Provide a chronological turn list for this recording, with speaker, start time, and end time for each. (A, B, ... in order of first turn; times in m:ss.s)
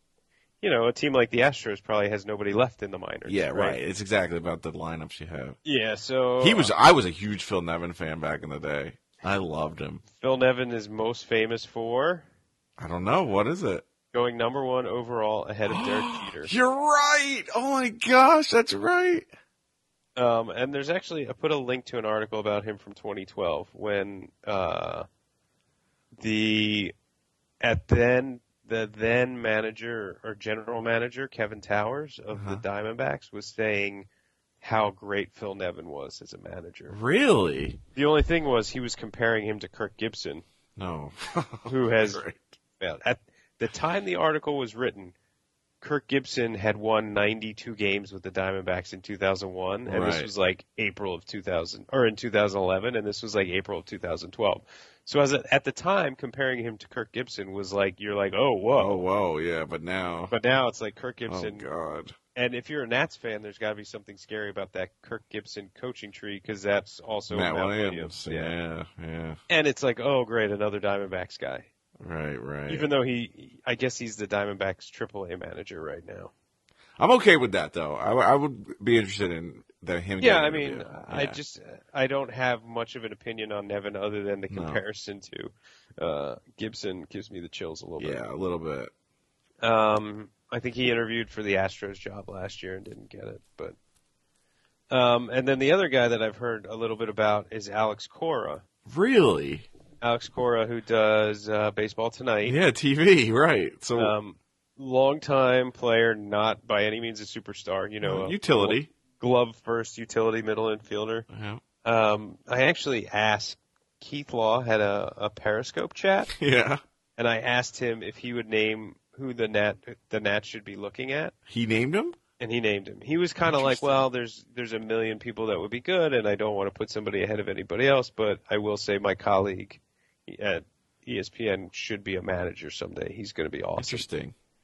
0:00.6-0:03.8 A
0:03.3-0:05.6 B
0:05.6-0:06.7 A
0:06.4-0:10.0 B
0:10.1-0:12.3 A
0:12.8-0:13.8 B
0:14.1-0:16.5 A
0:15.7-0:19.3 B
0:20.2-0:25.1 A
0:26.2-0:26.9 A
0:27.6-0:34.1 A
0:32.3-0:32.6 B
0:34.6-0:37.0 A
0:36.9-0:37.8 B
0:38.0-0:40.4 A
0:40.8-0:42.5 B
0:41.7-0:42.2 A
0:42.8-0:45.2 A
0:45.8-0:59.0 A
0:49.9-0:50.3 B
0:58.8-1:00.4 B
1:00.3-1:01.7 A
1:01.3-1:02.2 B
1:02.4-1:08.5 A
1:07.3-1:09.4 B
1:09.5-1:11.7 A
1:12.0-1:12.9 B
1:12.7-1:16.3 A
1:17.0-1:21.4 B
1:20.2-1:28.2 A
1:24.5-1:24.8 B
1:28.0-1:28.9 B
1:29.6-1:33.8 A
1:34.9-1:38.6 A
1:38.9-1:39.7 B
1:40.0-1:42.6 A
1:42.4-1:44.2 B
1:44.0-1:51.3 A
1:48.0-1:48.9 B
1:51.3-1:51.6 B
1:51.8-1:56.3 A
1:56.3-1:56.8 B
1:57.2-2:01.4 A
2:01.5-2:02.2 B
2:02.4-2:14.0 A
2:03.4-2:04.1 B
2:13.8-2:14.4 B